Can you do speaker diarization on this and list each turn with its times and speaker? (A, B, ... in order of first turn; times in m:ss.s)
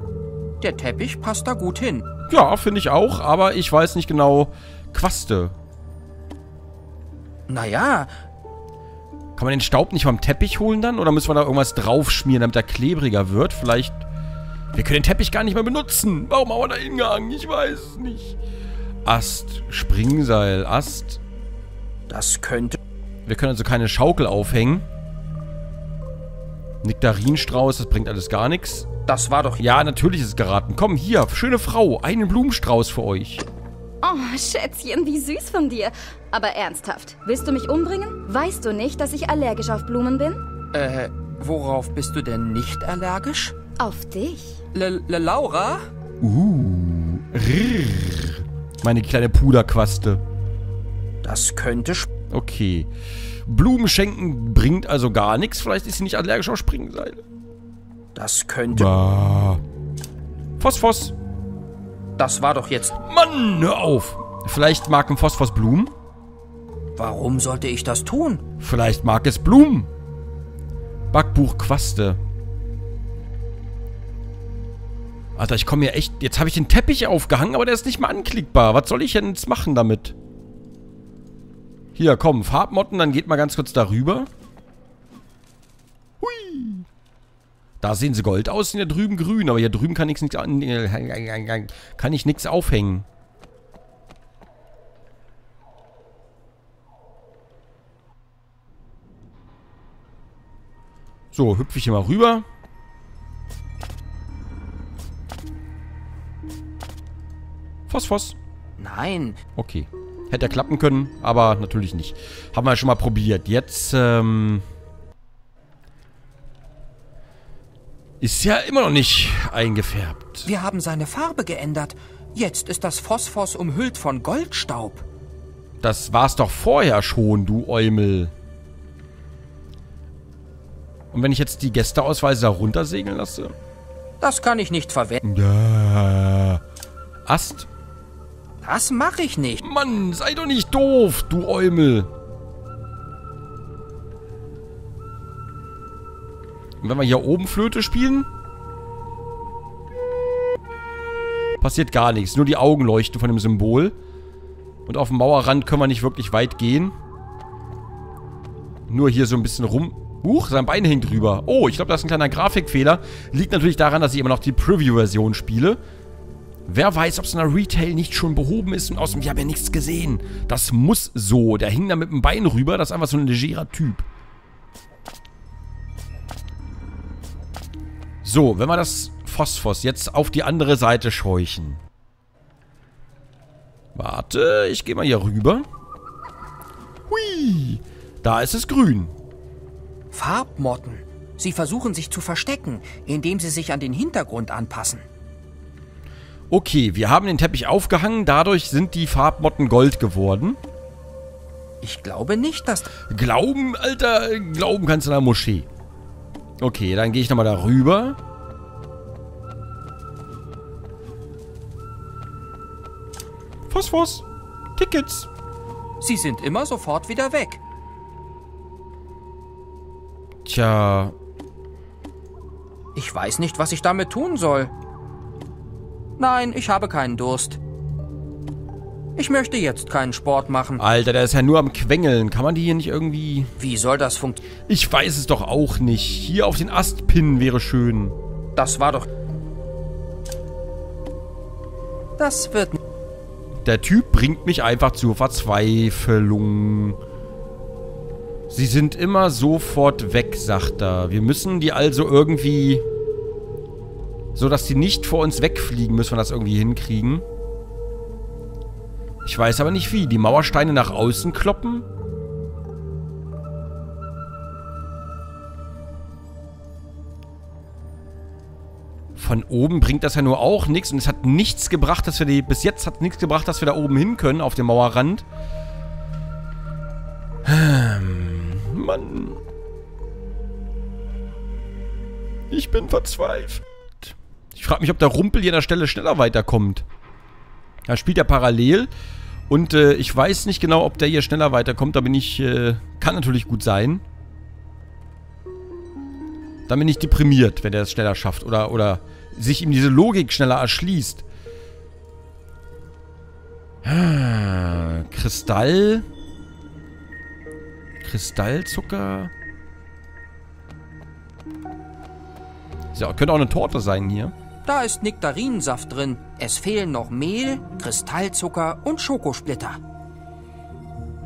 0:00.6-0:02.1 A
0:02.3-0:05.5 B
0:07.5-0:08.1 A
0:09.4-0:14.0 B
0:14.7-0:18.4 B
0:19.0-0:21.2 B
0:22.1-0:22.8 A
0:23.2-0:24.8 B
0:26.8-0:28.9 B
0:29.1-0:29.6 A
0:29.6-0:33.4 B
0:34.0-0:40.4 C
0:40.7-0:43.5 A
0:43.8-0:44.6 C
0:44.7-0:45.8 A
0:46.2-0:50.2 B
0:51.2-0:52.1 A
0:52.3-0:52.9 B
0:53.4-0:57.2 B
0:58.1-0:58.9 A
0:58.7-0:59.6 B
1:00.6-1:01.1 B
1:02.2-1:02.9 A
1:02.9-1:05.9 B
1:07.0-1:08.4 A
1:08.6-1:09.9 B
1:11.1-1:12.2 B
1:15.4-1:20.2 B
1:21.9-1:24.3 B
1:26.2-1:26.8 B
1:27.8-1:33.0 B
1:41.3-1:42.4 B
1:47.9-1:48.4 B
1:48.8-1:49.4 A
1:49.6-1:54.6 B
1:58.2-2:00.5 B
2:00.4-2:05.0 A
2:05.8-2:08.3 B
2:11.1-2:13.5 B
2:14.2-2:15.2 A
2:15.2-2:16.6 B
2:17.2-2:17.7 B
2:18.6-2:19.6 A
2:19.6-2:22.1 B
2:26.8-2:28.3 B
2:31.6-2:33.9 B
2:34.8-2:36.9 B
2:38.9-2:45.8 B
2:46.7-2:54.0 B
2:58.2-3:01.8 B
3:03.9-3:05.6 B
3:07.1-3:09.1 B
3:10.1-3:15.0 A
3:16.5-3:20.6 B
3:21.8-3:22.9 A
3:23.1-3:25.7 B
3:26.6-3:28.2 B
3:33.7-3:35.3 B
3:36.0-3:37.6 A
3:40.4-3:41.1 B
3:42.9-3:44.7 A
3:46.2-3:47.6 A
3:49.2-3:50.8 A
3:50.8-3:53.5 B
3:53.6-3:54.4 A
3:54.6-3:58.2 B
3:58.6-3:59.1 A
4:02.2-4:02.8 A
4:03.6-4:07.0 B
4:08.5-4:12.8 B
4:14.3-4:17.2 B
4:19.2-4:21.9 B
4:29.2-4:35.2 B
4:37.4-4:39.4 B
4:42.5-4:46.8 B
4:47.9-4:48.9 B
4:49.5-4:54.0 B
4:56.7-5:01.2 B
5:03.8-5:06.0 B
5:08.0-5:09.3 B
5:12.9-5:14.3 B
5:14.6-5:19.8 A